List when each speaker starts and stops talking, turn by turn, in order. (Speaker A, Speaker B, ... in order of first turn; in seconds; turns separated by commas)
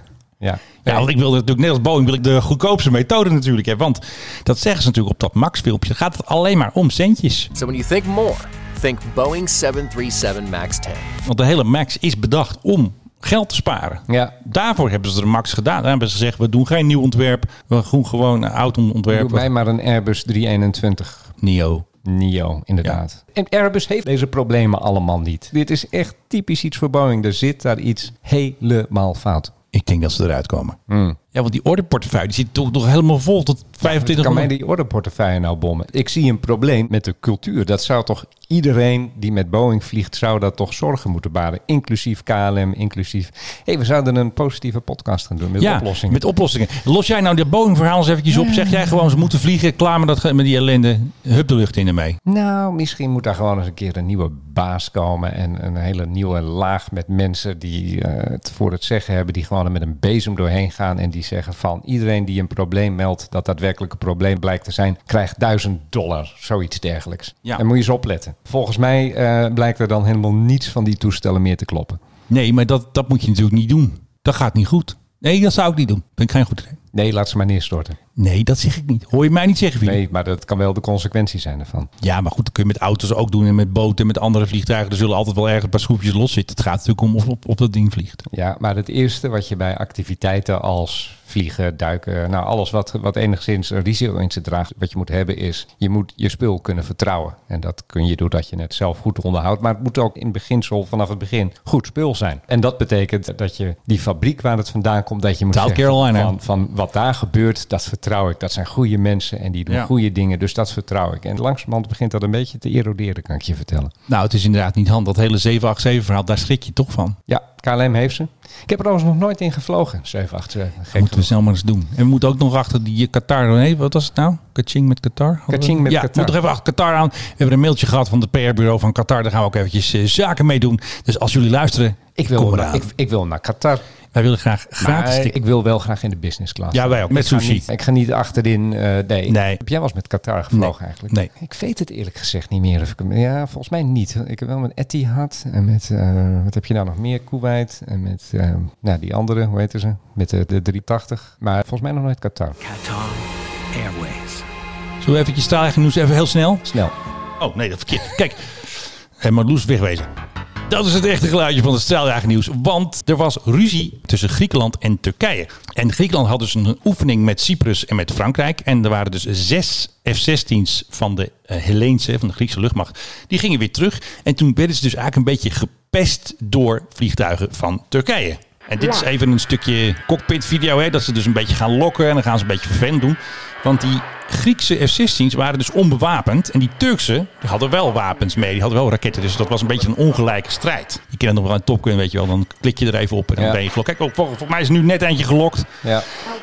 Speaker A: 0.4-1.1, Speaker B: 0.8-7.5, Speaker C: 7.5-11.1, Speaker B: 11.2-19.5, Speaker A: 14.1-14.3, Speaker A: 19.1-21.4, Speaker B: 21.4-21.9, Speaker A: 22.1-29.5, Speaker B: 29.7-30.8, Speaker A: 30.9-31.2, Speaker B: 31.3-34.5, Speaker A: 33.8-46.2, Speaker B: 45.6-52.2, Speaker A: 48.3-48.9, Speaker A: 52.3-72.0, Speaker B: 72.3-76.8, Speaker A: 76.9-78.0, Speaker B: 78.2-80.0, Speaker A: 79.8-81.9, Speaker B: 82.0-88.2, Speaker A: 88.3-113.9, Speaker B: 105.5-106.3, Speaker B: 114.1-117.2, Speaker A: 117.3-121.3, Speaker B: 121.0-132.9, Speaker A: 125.5-126.4, Speaker A: 132.2-133.8, Speaker B: 134.1-135.3, Speaker A: 134.8-152.6, Speaker B: 136.7-137.7, Speaker B: 139.3-139.6, Speaker B: 140.5-141.3, Speaker C: 152.6-154.4, Speaker B: 155.0-156.7, Speaker A: 156.7-156.9, Speaker B: 157.4-158.4, Speaker B: 159.2-160.1, Speaker B: 160.7-195.7